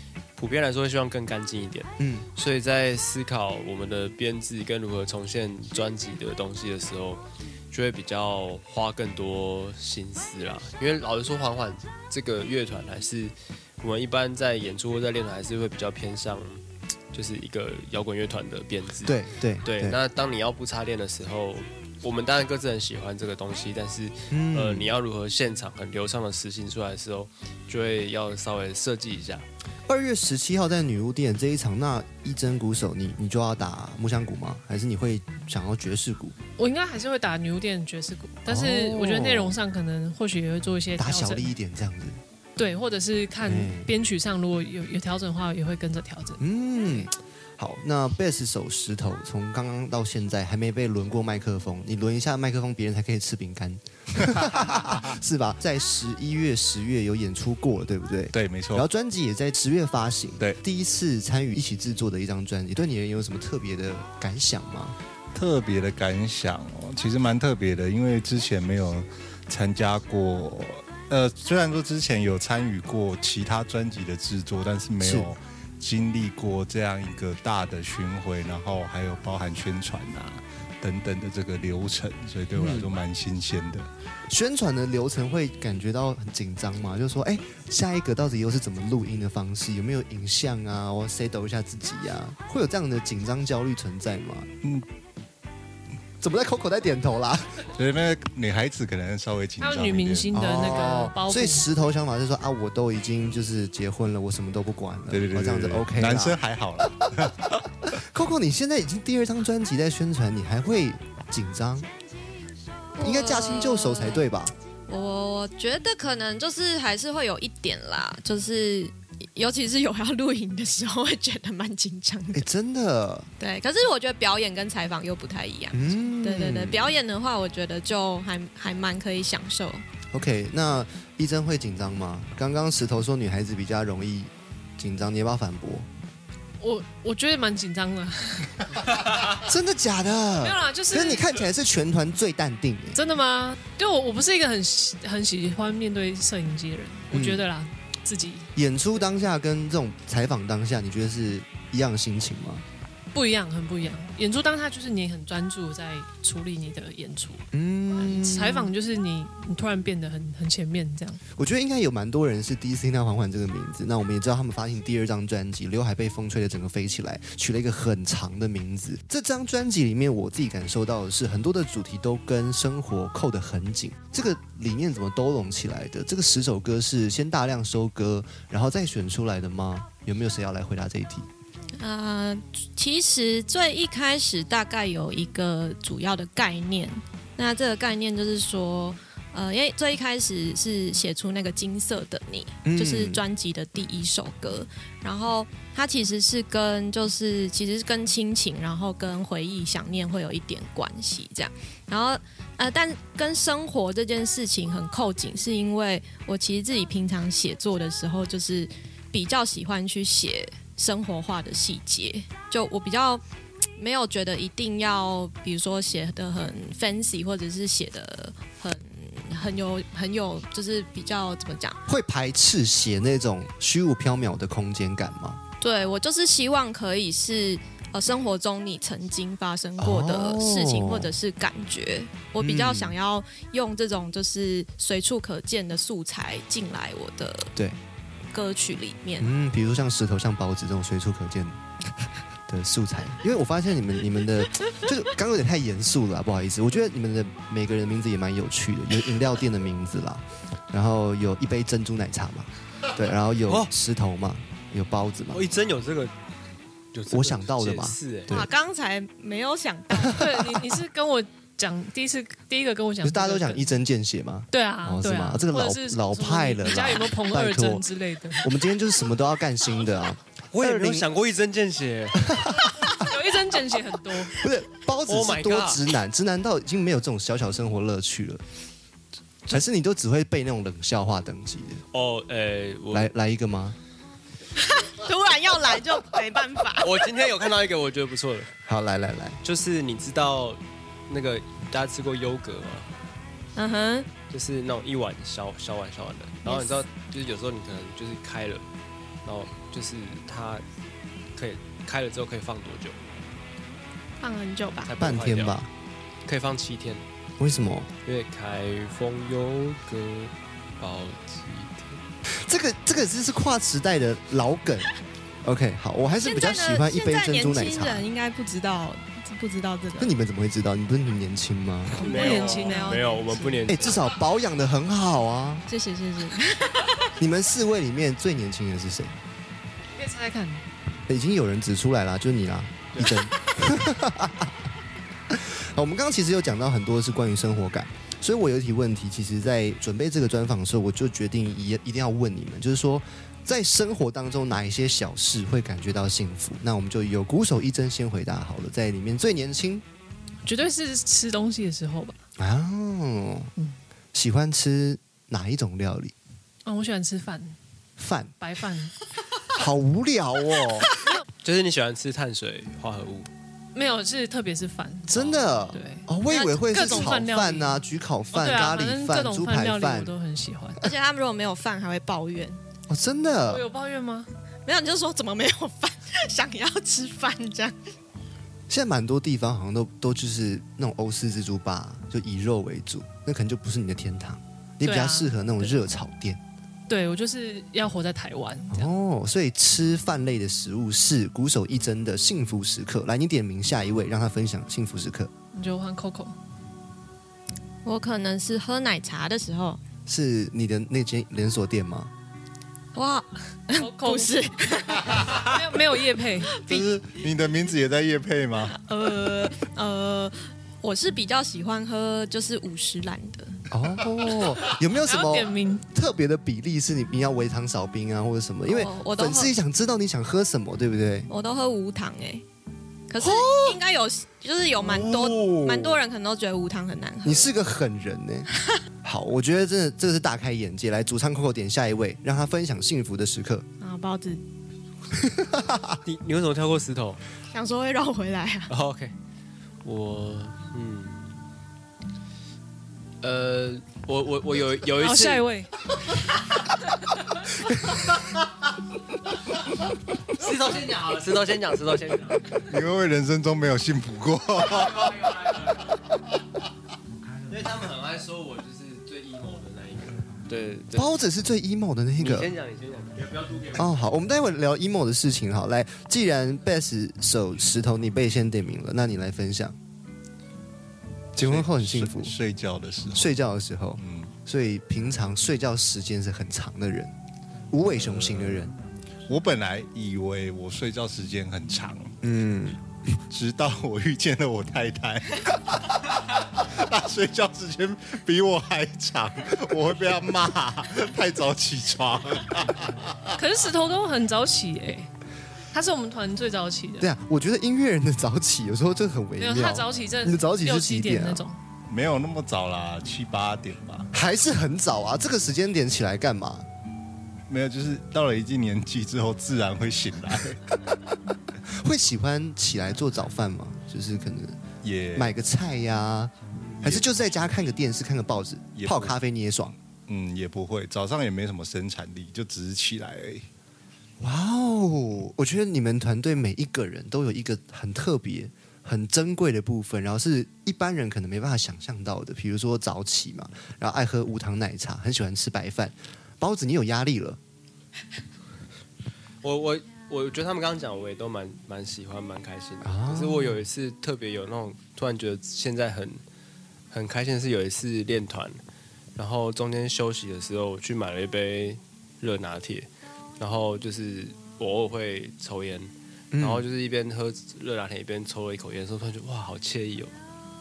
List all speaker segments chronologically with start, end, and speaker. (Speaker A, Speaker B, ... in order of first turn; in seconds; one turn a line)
Speaker A: 0.4-29.4
Speaker B: 2.0-2.3
Speaker B: 19.0-20.0
Speaker B: 24.3-24.9
Speaker B: 29.9-36.4
Speaker C: 36.6-41.5
Speaker B: 38.5-39.6
Speaker B: 41.0-42.2
Speaker C: 42.6-46.4
Speaker B: 43.4-43.9
Speaker B: 46.4-65.0
Speaker D: 58.3-58.9
Speaker D: 65.3-83.9
Speaker B: 75.0-75.3
Speaker B: 82.5-82.9
Speaker B: 84.3-94.5
Speaker B: 96.2-97.6
Speaker D: 97.7-100.3
Speaker C: 99.6-101.6
Speaker B: 100.3-111.9
Speaker D: 105.1-107.6
Speaker E: 113.0-114.2
Speaker B: 113.0-114.5
Speaker E: 114.9-122.4
Speaker B: 122.3-123.3
Speaker E: 123.4-129.8
Speaker B: 125.7-126.9
Speaker B: 130.1-135.9
Speaker C: 136.6-139.1
Speaker B: 139.4-143.0
Speaker C: 140.4-141.4
Speaker C: 142.9-148.5
Speaker B: 147.1-147.5
Speaker B: 148.6-152.6
Speaker C: 153.1-161.2
Speaker B: 157.5-158.7
Speaker B: 161.3-181.3
Speaker E: 181.8-213.2
Speaker B: 192.6-193.2
Speaker E: 213.8-221.8
Speaker B: 221.9-225.4
Speaker E: 225.6-237.5
Speaker B: 229.8-231.1
Speaker B: 232.4-232.9
Speaker E: 238.3-239.3
Speaker B: 239.2-241.6
Speaker B: 242.5-255.4
Speaker A: 255.3-256.1
Speaker A: 256.9-258.3
Speaker B: 257.1-258.5
Speaker E: 258.3-260.2
Speaker B: 259.9-260.7
Speaker C: 260.1-263.7
Speaker B: 263.0-267.8
Speaker C: 264.5-268.5
Speaker B: 268.4-271.1
Speaker A: 270.5-272.4
Speaker B: 272.2-273.0
Speaker C: 272.9-274.4
Speaker B: 274.3-278.4
Speaker A: 275.1-275.9
Speaker B: 279.5-281.8
Speaker A: 281.9-283.1
Speaker B: 282.9-283.8
Speaker E: 284.6-287.1
Speaker A: 286.8-288.5
Speaker B: 288.7-289.4
Speaker A: 289.4-292.9
Speaker E: 293.6-294.1
Speaker A: 294.3-298.6
Speaker E: 296.4-296.8
Speaker A: 299.2-300.6
Speaker A: 301.4-303.0
Speaker E: 304.2-304.9
Speaker A: 304.8-305.6
Speaker B: 305.0-305.7
Speaker A: 306.2-307.0
Speaker B: 307.4-307.9
Speaker A: 308.0-312.0
Speaker B: 312.3-314.9
Speaker B: 315.4-318.1
Speaker E: 316.2-320.1
Speaker B: 320.0-322.0
Speaker E: 321.9-323.7
Speaker A: 322.0-324.1
Speaker C: 322.0-323.2
Speaker B: 323.7-325.6
Speaker E: 325.7-327.1
Speaker B: 327.2-329.1
Speaker C: 329.9-330.6
Speaker B: 331.1-334.5
Speaker A: 332.9-333.3
Speaker B: 335.3-349.8
Speaker C: 350.4-352.2
Speaker B: 352.4-353.5
Speaker B: 354.1-356.1
Speaker C: 356.6-357.6
Speaker B: 358.0-358.3
Speaker C: 358.4-358.9
Speaker B: 359.5-360.9
Speaker A: 361.4-363.3
Speaker C: 363.7-366.1
Speaker B: 365.1-370.1
Speaker E: 366.3-367.2
Speaker C: 366.7-370.8
Speaker E: 370.8-372.6
Speaker B: 372.9-373.6
Speaker C: 373.5-374.3
Speaker E: 374.6-377.8
Speaker B: 378.7-386.4
Speaker C: 384.8-385.8
Speaker C: 386.9-388.9
Speaker B: 388.7-395.3
Speaker C: 395.5-396.4
Speaker E: 397.8-399.8
Speaker B: 400.1-402.1
Speaker E: 402.9-405.6
Speaker C: 403.7-404.4
Speaker C: 405.4-406.7
Speaker D: 406.6-408.8
Speaker E: 408.7-413.6
Speaker B: 413.7-421.3
Speaker C: 415.0-415.9
Speaker E: 418.6-419.5
Speaker E: 421.3-422.4
Speaker E: 423.1-427.5
Speaker B: 423.2-423.8
Speaker B: 424.8-426.0
Speaker B: 427.2-428.5
Speaker B: 429.0-433.6
Speaker E: 433.8-434.4
Speaker B: 435.1-436.0
Speaker A: 436.0-437.2
Speaker E: 437.5-438.7
Speaker A: 438.7-439.1
Speaker A: 439.8-441.4
Speaker A: 443.2-445.5
Speaker C: 445.0-445.7
Speaker A: 450.3-452.6
Speaker D: 452.7-455.3
Speaker A: 454.9-455.8
Speaker A: 457.5-461.1
Speaker B: 460.9-462.5
Speaker A: 462.2-463.9
Speaker B: 463.7-469.8
Speaker B: 471.3-472.3
Speaker D: 471.4-473.4
Speaker B: 473.1-477.1
Speaker D: 474.0-474.3
Speaker B: 477.7-478.7
Speaker D: 477.9-478.6
Speaker D: 479.2-482.2
Speaker B: 482.2-482.8
Speaker D: 483.3-493.4
Speaker C: 493.3-495.1
Speaker C: 495.7-497.1
Speaker B: 497.0-501.4
Speaker C: 499.4-501.6
Speaker D: 501.9-504.1
Speaker B: 504.1-506.6
Speaker D: 507.5-510.7
Speaker B: 511.7-514.6
Speaker D: 514.8-515.3
Speaker B: 515.1-519.8
Speaker D: 516.7-517.1
Speaker D: 518.8-519.2
Speaker D: 520.1-523.5
Speaker B: 524.2-537.4
Speaker A: 539.4-546.2
Speaker B: 542.8-543.6
Speaker A: 546.9-548.6
Speaker A: 549.1-560.1
Speaker B: 556.3-556.6